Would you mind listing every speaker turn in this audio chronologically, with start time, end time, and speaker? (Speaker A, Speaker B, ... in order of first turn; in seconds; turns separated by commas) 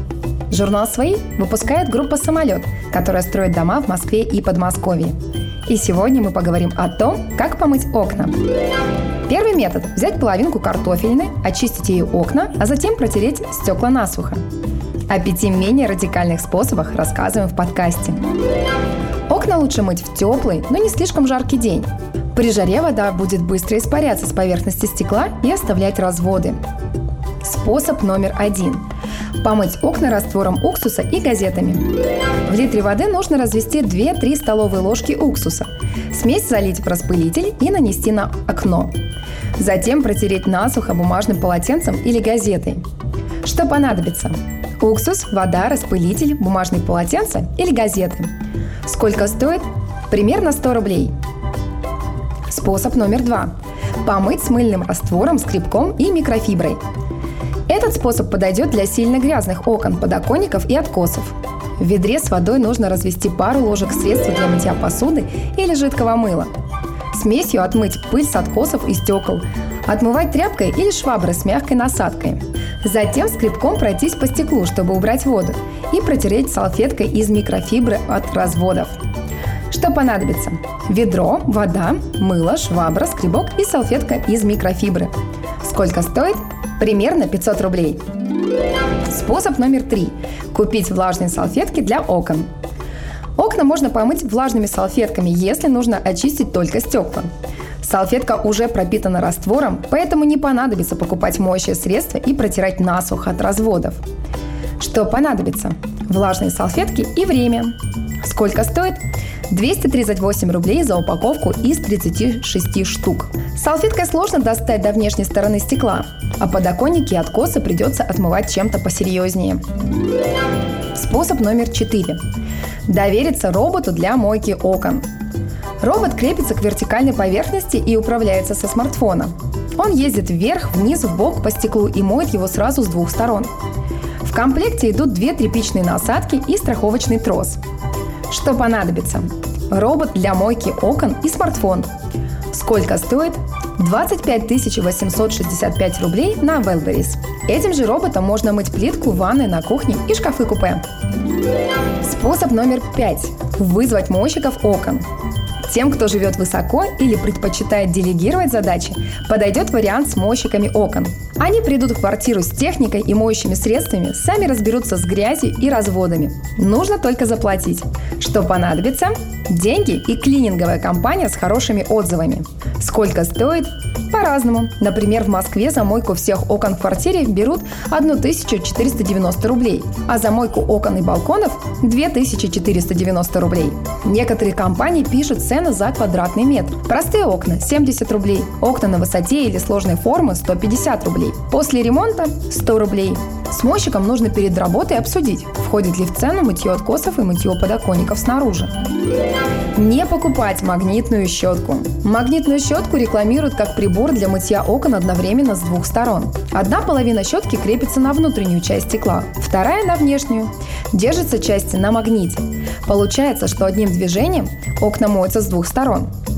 Speaker A: 0.5-5.2, Speaker A: 5.7-8.3, Speaker A: 9.2-14.4, Speaker A: 15.1-18.2, Speaker A: 19.3-26.6, Speaker A: 27.4-28.8, Speaker A: 29.4-31.9, Speaker A: 32.5-38.9, Speaker A: 39.6-42.8, Speaker A: 43.4-48.3, Speaker A: 48.8-51.1, Speaker A: 52.5-56.8, Speaker A: 57.7-66.5, Speaker A: 67.1-79.0, Speaker A: 79.7-88.0, Speaker A: 89.0-92.5, Speaker A: 93.4-97.3, Speaker A: 97.8-104.0, Speaker A: 104.8-119.6, Speaker A: 120.9-122.2, Speaker A: 122.8-125.0, Speaker A: 125.8-133.5, Speaker A: 134.2-137.6, Speaker A: 138.3-141.9, Speaker A: 142.5-150.8, Speaker A: 152.0-155.0, Speaker A: 155.6-198.7, Speaker A: 199.7-216.1